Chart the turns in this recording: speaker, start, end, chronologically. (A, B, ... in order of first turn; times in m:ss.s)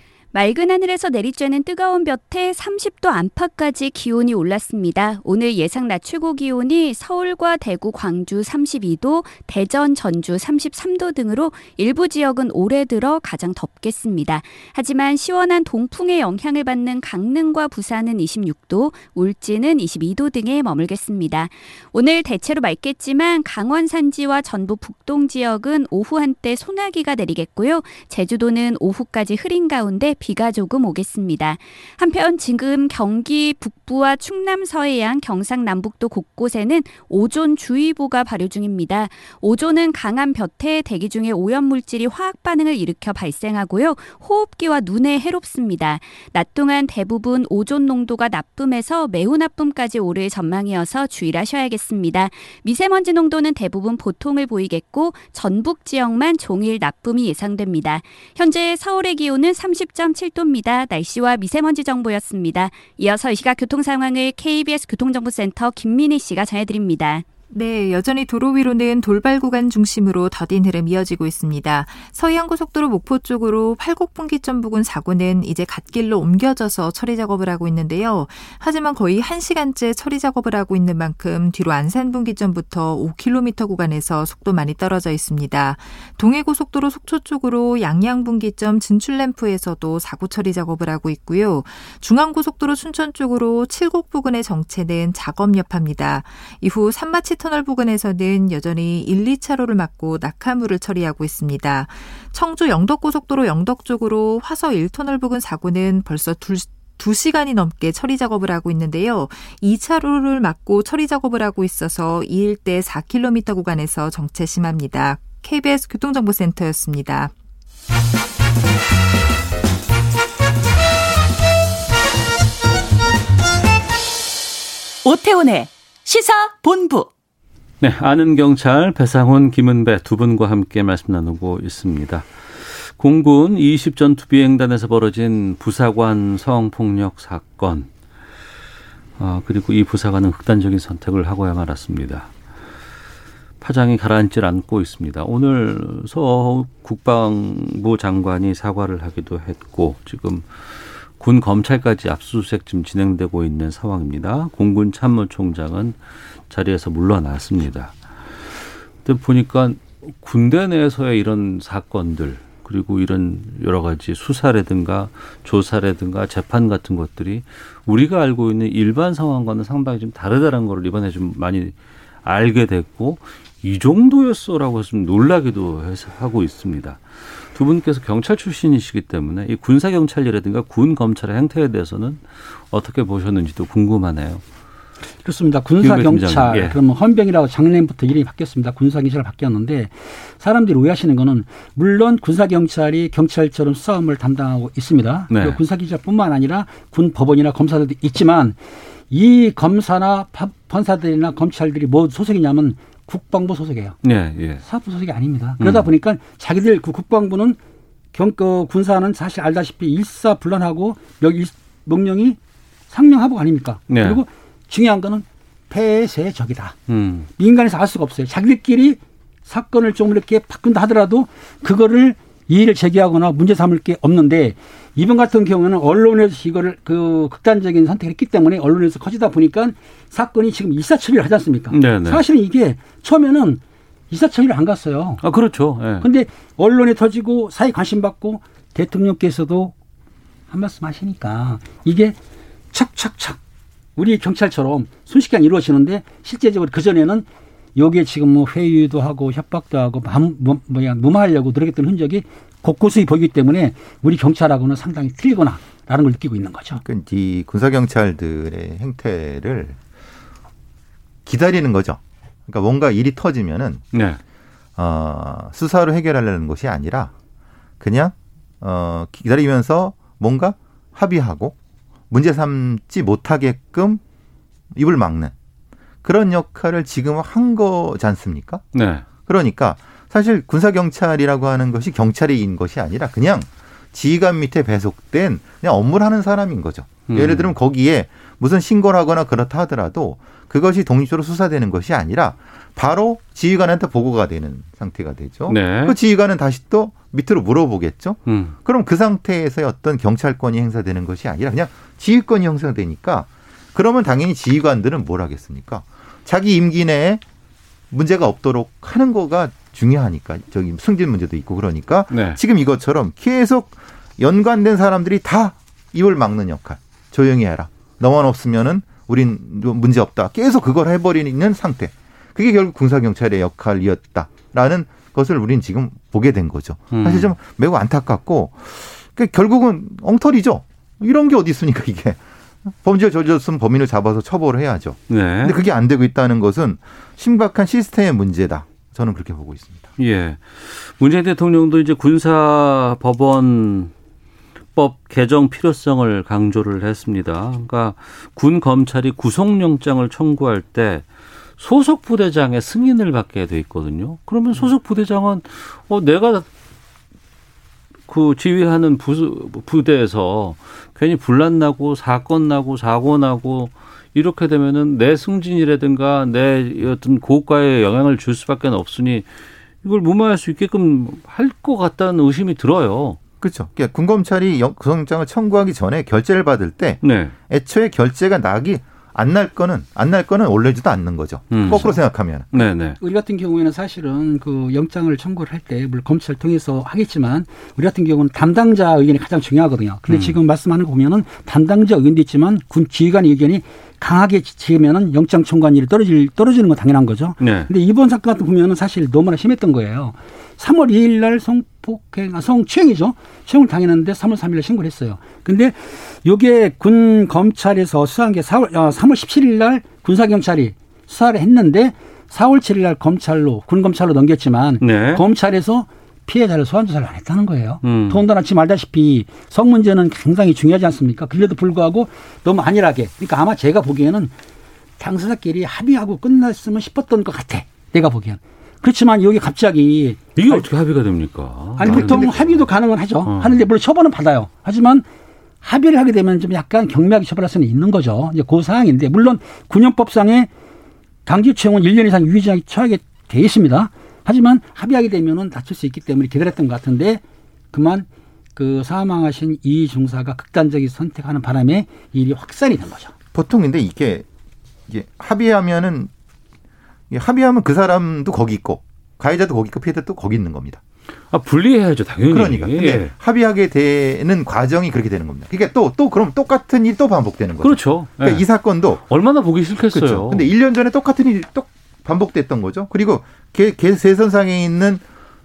0:00.3-1:07.2 A
1:07.5-1:57.3 B
2:05.0-2:07.1 C
2:07.8-2:17.9 D
2:19.2-2:22.3 D
2:23.6-2:36.0 D
2:36.5-2:37.9 D
2:39.0-2:51.7 D
2:52.2-3:04.4 D
3:05.2-3:18.6 E
3:05.8-3:06.8 D
3:15.3-3:15.6 D
3:19.1-3:24.0 E
3:24.0-3:24.6 D
3:24.6-3:27.6 E
3:25.6-3:25.9 D
3:28.1-3:32.4 E
3:32.9-3:36.8 E
3:33.9-3:34.2 D
3:36.9-3:37.3 D
3:37.4-3:55.2 E
3:51.7-3:52.2 D
3:55.2-3:56.1 D
3:56.0-3:59.7 E
4:00.5-4:02.2 E
4:02.7-4:03.4 E
4:04.0-4:07.2 E
4:07.8-4:16.8 E
4:16.8-4:19.8 F
4:21.3-4:23.8 F
4:23.9-4:24.2 D
4:24.8-4:27.1 F
4:27.8-4:31.6 F
4:32.1-4:34.0 F
4:34.7-4:35.3 F
4:36.0-4:38.6 F
4:38.7-4:39.0 D
4:39.3-5:07.2 F
4:47.1-4:47.5 D
4:55.5-4:56.0 D
4:58.3-4:58.6 D
5:07.9-5:39.9 F
5:12.1-5:12.4 D
5:26.9-5:27.4 D
5:35.1-5:35.6 D
5:40.0-5:43.9 D
5:44.8-5:51.1 D
5:51.6-5:56.5 D
5:58.1-6:09.3 D
6:09.8-6:13.2 D
6:13.4-6:22.5 F
6:17.0-6:17.3 D
6:21.5-6:21.9 D
6:22.5-6:23.0 D
6:23.0-7:04.3 E
6:30.1-6:30.4 D
6:37.4-6:37.7 D
6:54.8-6:55.2 D
6:57.8-6:58.3 D
7:05.0-7:10.7 E
7:10.4-7:12.7 D
7:11.8-7:15.0 E
7:11.9-7:12.3 F
7:13.2-7:13.6 D
7:15.6-7:20.5 E
7:21.3-7:27.2 E
7:27.7-7:33.1 E
7:33.3-7:34.2 F
7:34.9-7:36.1 F
7:37.1-7:40.8 F
7:41.3-7:43.1 D
7:42.3-7:49.0 F
7:47.6-7:48.4 D
7:49.0-7:50.5 D
7:49.9-7:55.0 F